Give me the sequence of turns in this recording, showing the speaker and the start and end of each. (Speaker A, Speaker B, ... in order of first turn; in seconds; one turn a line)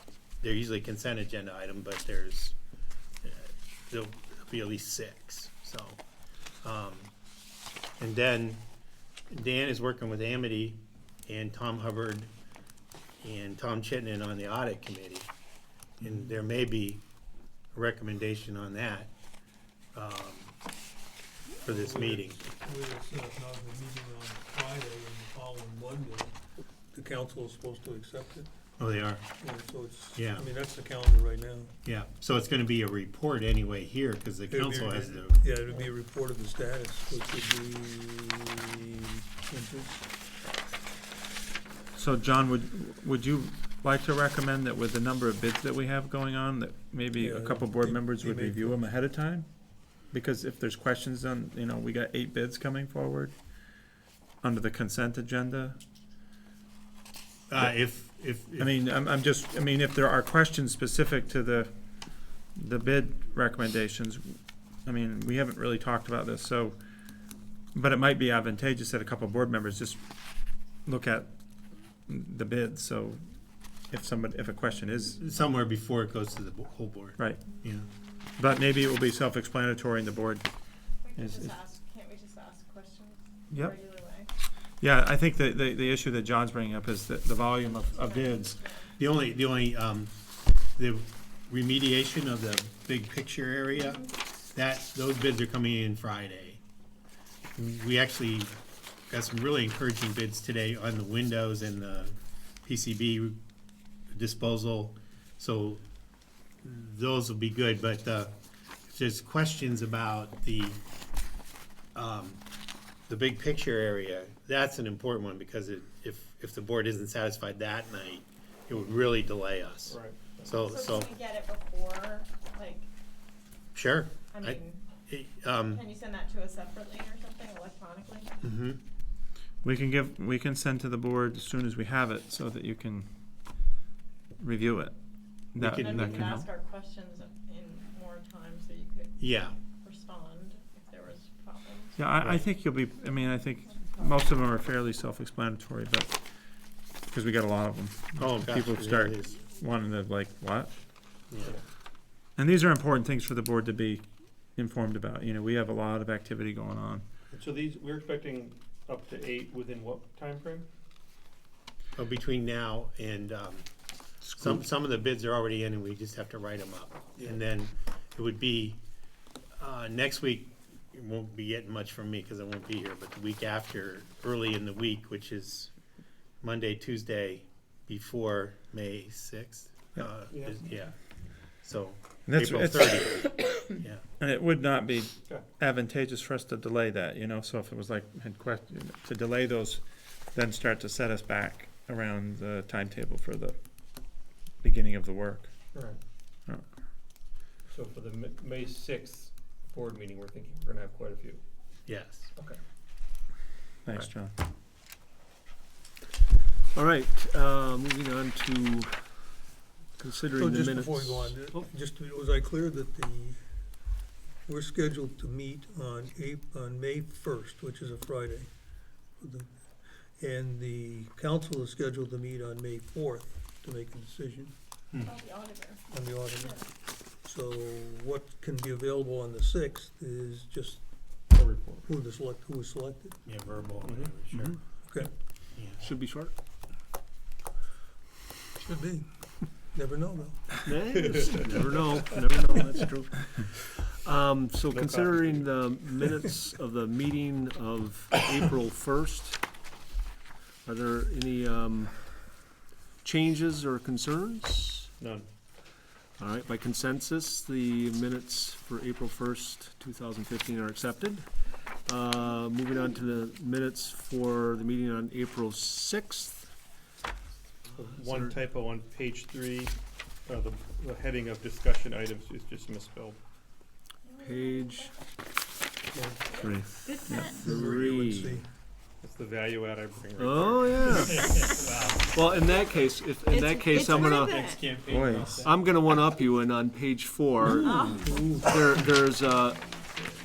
Speaker A: 0.4-2.5
Speaker A: 3.2-6.0
Speaker A: 6.6-7.1
Speaker A: 8.0-8.6
Speaker A: 9.3-12.3
Speaker A: 13.2-15.3
Speaker A: 16.0-17.0
Speaker A: 17.7-19.1
Speaker A: 19.9-20.5
Speaker B: 21.6-26.4
Speaker A: 21.6-22.4
Speaker B: 26.9-28.5
Speaker A: 28.8-29.2
Speaker B: 29.4-31.7
Speaker A: 30.1-30.4
Speaker A: 31.8-35.8
Speaker B: 34.5-40.1
Speaker C: 41.9-49.5
Speaker B: 47.2-48.9
Speaker C: 50.1-53.3
Speaker C: 54.4-55.8
Speaker A: 57.5-58.7
Speaker C: 58.6-61.7
Speaker C: 62.5-66.8
Speaker C: 67.7-70.0
Speaker C: 70.8-71.3
Speaker C: 72.1-73.2
Speaker C: 73.9-75.2
Speaker A: 75.2-77.9
Speaker C: 77.2-77.4
Speaker C: 78.3-80.5
Speaker D: 81.0-84.3
Speaker C: 81.1-81.6
Speaker C: 84.8-88.6
Speaker D: 87.9-89.0
Speaker A: 89.0-90.1
Speaker A: 90.8-96.6
Speaker D: 93.7-94.1
Speaker A: 97.5-98.5
Speaker A: 99.1-103.4
Speaker A: 104.1-105.8
Speaker A: 106.6-108.3
Speaker A: 108.9-110.8
Speaker A: 111.9-112.4
Speaker A: 113.1-121.1
Speaker E: 119.8-120.6
Speaker D: 120.6-122.9
Speaker A: 123.7-125.8
Speaker D: 124.3-124.8
Speaker D: 125.7-128.3
Speaker A: 128.4-128.8
Speaker C: 129.6-133.1
Speaker C: 134.4-134.9
Speaker C: 135.5-136.5
Speaker A: 135.6-136.3
Speaker D: 135.7-142.0
Speaker A: 139.2-139.5
Speaker C: 142.0-146.2
Speaker A: 142.2-142.4
Speaker D: 143.7-144.2
Speaker C: 147.1-150.8
Speaker A: 148.2-149.4
Speaker A: 151.3-151.6
Speaker C: 152.3-157.0
Speaker E: 157.3-160.7
Speaker A: 161.9-163.7
Speaker C: 164.2-164.6
Speaker A: 164.4-168.8
Speaker E: 167.2-167.4
Speaker A: 169.6-175.7
Speaker A: 176.4-181.0
Speaker E: 180.3-180.7
Speaker A: 181.6-184.0
Speaker C: 182.2-193.6
Speaker C: 194.6-195.5
Speaker E: 197.6-201.4
Speaker A: 201.8-202.3
Speaker C: 203.8-204.3
Speaker F: 206.7-209.4
Speaker F: 210.0-211.7
Speaker B: 210.3-213.9
Speaker B: 214.4-218.5
Speaker B: 219.2-219.5
Speaker B: 220.2-224.5
Speaker D: 225.0-226.7
Speaker B: 225.9-230.8
Speaker E: 231.3-231.8
Speaker B: 231.8-233.2
Speaker A: 233.2-234.6
Speaker E: 233.8-234.2
Speaker F: 234.3-234.6
Speaker A: 235.5-235.9
Speaker F: 235.8-236.3
Speaker B: 238.6-240.6
Speaker F: 240.6-249.4
Speaker E: 244.7-245.5
Speaker F: 250.6-252.5
Speaker F: 253.0-254.9
Speaker E: 255.0-255.2
Speaker F: 256.2-266.5
Speaker F: 267.7-268.4
Speaker E: 267.8-273.2
Speaker D: 274.0-274.9
Speaker F: 274.2-274.9
Speaker B: 275.9-278.5
Speaker D: 276.2-277.1
Speaker C: 276.4-277.3
Speaker F: 277.3-278.4
Speaker E: 279.0-282.6
Speaker F: 280.2-281.4
Speaker F: 282.1-284.5
Speaker D: 283.3-284.6
Speaker A: 283.9-285.5
Speaker C: 284.8-285.4
Speaker F: 285.4-289.7
Speaker B: 287.4-288.5
Speaker D: 287.5-288.7